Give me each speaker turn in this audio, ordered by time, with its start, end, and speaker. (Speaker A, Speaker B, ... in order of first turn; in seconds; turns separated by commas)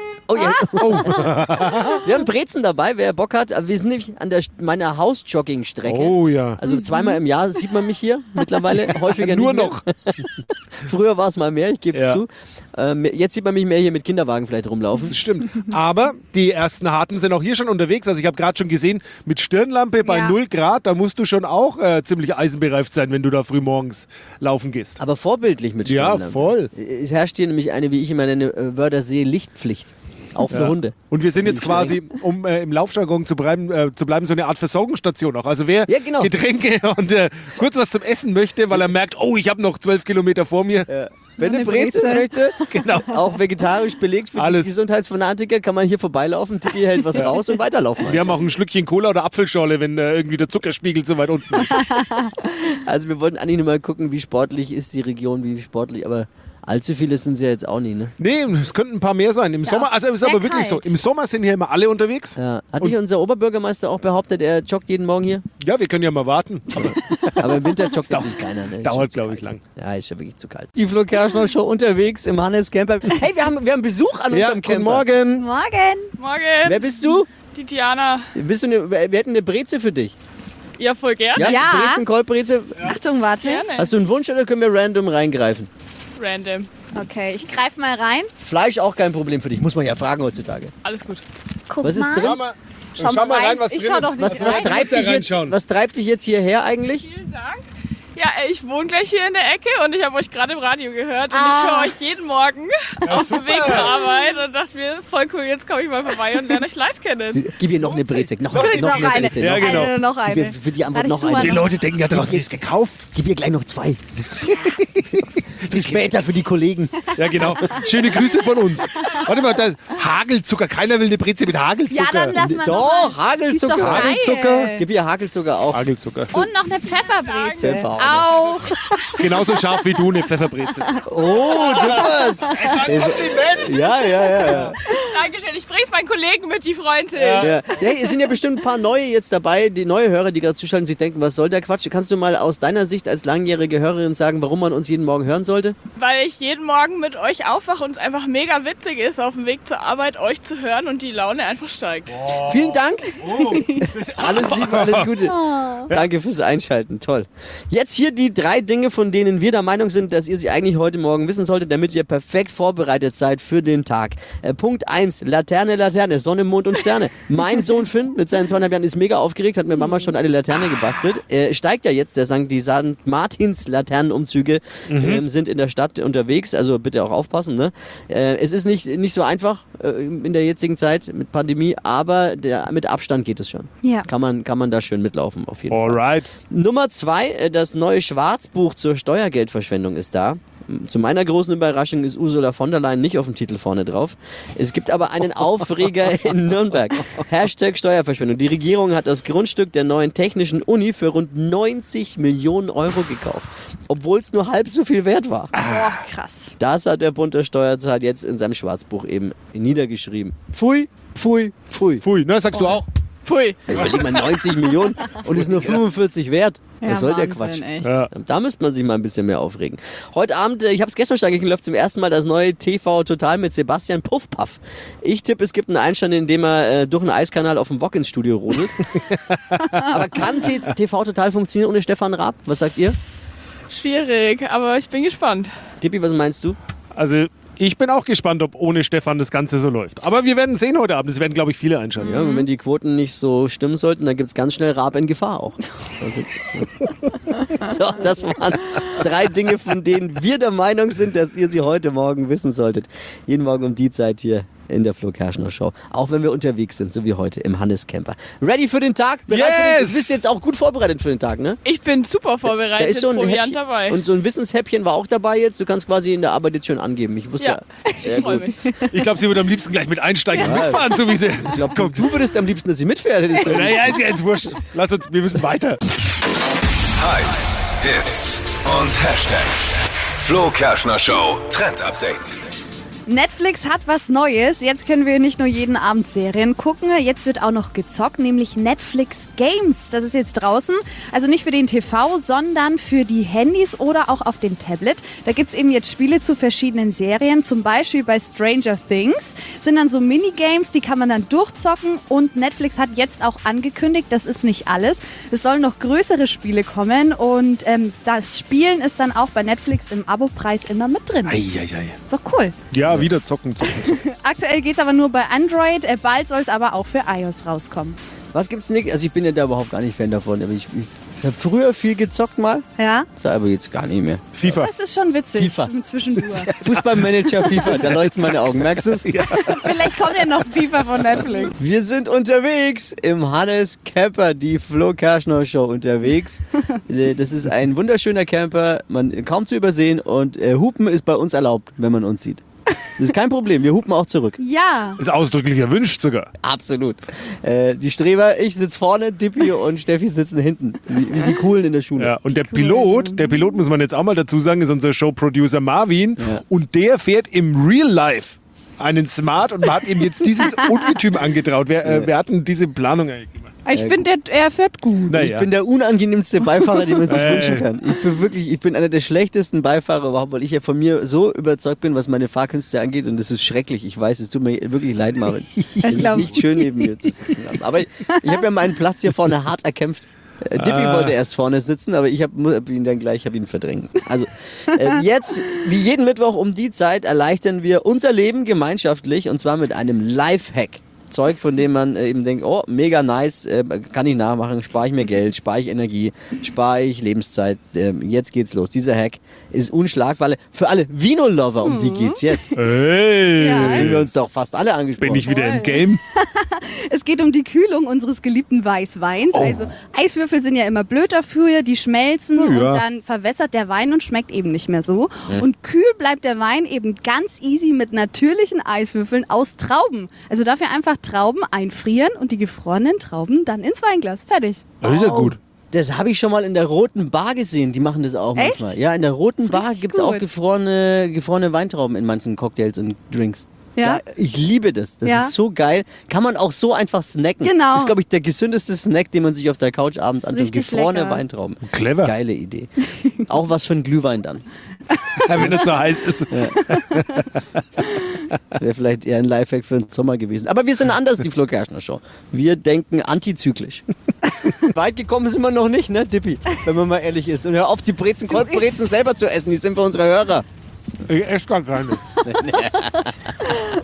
Speaker A: 0.3-15.2, Speaker B: 0.7-2.0, Speaker B: 5.9-6.6, Speaker B: 9.0-9.8, Speaker B: 11.9-12.2, Speaker B: 15.1-25.0, Speaker C: 20.0-20.4, Speaker A: 25.0-32.0, Speaker B: 25.9-26.7, Speaker B: 30.5-40.9, Speaker A: 35.9-36.3, Speaker A: 40.9-48.4, Speaker C: 41.4-42.6, Speaker B: 42.7-43.2, Speaker B: 44.4-44.7, Speaker B: 48.0-52.1, Speaker C: 52.0-52.3, Speaker A: 52.5-58.1, Speaker B: 58.2-62.9, Speaker C: 59.6-61.0, Speaker A: 62.4-65.4, Speaker B: 65.6-69.6, Speaker A: 66.7-75.4, Speaker B: 74.3-75.1, Speaker C: 75.3-76.1, Speaker D: 76.2-76.9, Speaker A: 76.6-77.3, Speaker D: 77.4-78.3, Speaker A: 78.3-80.1, Speaker D: 80.8-81.5, Speaker A: 81.3-83.0, Speaker C: 81.4-82.0, Speaker C: 82.8-83.7, Speaker D: 83.4-83.9, Speaker A: 83.8-85.7, Speaker D: 86.2-86.7, Speaker C: 86.9-88.3, Speaker A: 88.4-90.7, Speaker D: 90.8-91.2, Speaker C: 91.7-92.4, Speaker A: 91.8-92.4, Speaker B: 92.2-95.5, Speaker C: 93.0-95.0, Speaker A: 94.2-97.1, Speaker D: 97.0-107.5, Speaker C: 101.3-101.9, Speaker B: 103.0-104.0, Speaker A: 107.3-112.5, Speaker B: 107.8-109.9, Speaker C: 108.5-111.7, Speaker B: 111.3-113.0, Speaker A: 113.1-117.8, Speaker B: 115.2-116.0, Speaker B: 117.1-122.3, Speaker C: 121.9-124.8, Speaker A: 122.3-125.8, Speaker B: 123.8-124.7, Speaker B: 125.7-126.5, Speaker C: 126.3-128.8, Speaker D: 127.0-127.8, Speaker A: 127.6-128.3, Speaker B: 129.2-133.8, Speaker A: 131.1-134.7, Speaker B: 134.4-134.7, Speaker D: 134.8-137.8, Speaker B: 137.1-137.5, Speaker A: 137.4-145.8, Speaker D: 145.9-152.2, Speaker B: 152.1-155.1, Speaker A: 152.4-205.5, Speaker C: 155.3-155.9, Speaker B: 174.9-175.2, Speaker B: 185.7-186.3, Speaker B: 205.6-205.9, Speaker C: 205.6-206.5, Speaker A: 206.6-212.0, Speaker B: 212.0-212.9, Speaker D: 213.2-213.7, Speaker A: 213.7-228.8, Speaker B: 213.7-214.1, Speaker B: 215.3-215.8, Speaker C: 216.8-217.9, Speaker B: 217.8-218.1, Speaker B: 229.3-229.8, Speaker A: 229.8-233.0, Speaker D: 233.7-235.5, Speaker A: 235.8-236.6, Speaker B: 236.9-242.2, Speaker A: 242.0-246.9, Speaker C: 242.0-242.4, Speaker A: 247.5-261.6, Speaker B: 259.3-260.2, Speaker D: 261.6-264.0, Speaker A: 262.7-268.5, Speaker D: 267.4-268.7, Speaker B: 268.9-272.1, Speaker A: 270.3-274.0, Speaker B: 273.4-275.8, Speaker E: 276.9-282.4, Speaker C: 283.1-311.4, Speaker B: 311.2-311.9, Speaker C: 312.1-312.5, Speaker B: 312.7-314.0, Speaker C: 313.8-318.0, Speaker A: 318.3-324.4, Speaker C: 322.8-323.1, Speaker B: 324.3-324.7, Speaker C: 324.4-326.5, Speaker A: 325.3-325.7, Speaker A: 326.5-329.4, Speaker B: 326.6-329.7, Speaker C: 329.4-331.5, Speaker A: 331.5-342.4, Speaker A: 343.0-344.4, Speaker C: 344.4-345.0, Speaker B: 345.0-346.3, Speaker A: 346.4-352.1, Speaker B: 352.0-363.5, Speaker C: 352.4-353.5, Speaker A: 361.8-362.1, Speaker C: 363.6-365.2, Speaker A: 363.7-364.0, Speaker B: 365.1-365.5, Speaker A: 365.1-402.5, Speaker B: 367.1-367.7, Speaker C: 375.8-376.9, Speaker B: 375.9-376.2, Speaker B: 380.6-381.1, Speaker C: 401.6-402.5, Speaker B: 402.5-404.1, Speaker C: 403.3-403.9, Speaker A: 403.4-405.3, Speaker B: 405.0-406.0, Speaker C: 405.3-424.8, Speaker B: 409.3-409.6, Speaker B: 412.4-412.8, Speaker B: 424.8-425.4, Speaker A: 424.8-444.4, Speaker C: 428.4-428.8, Speaker C: 429.4-430.3, Speaker C: 433.8-434.0, Speaker C: 435.0-435.3, Speaker C: 437.4-437.9, Speaker C: 440.2-441.2, Speaker B: 441.6-442.1, Speaker B: 445.2-447.4, Speaker A: 445.3-445.6, Speaker A: 446.3-446.6, Speaker A: 448.5-453.8, Speaker A: 454.4-460.4, Speaker B: 461.1-462.0, Speaker A: 462.2-463.3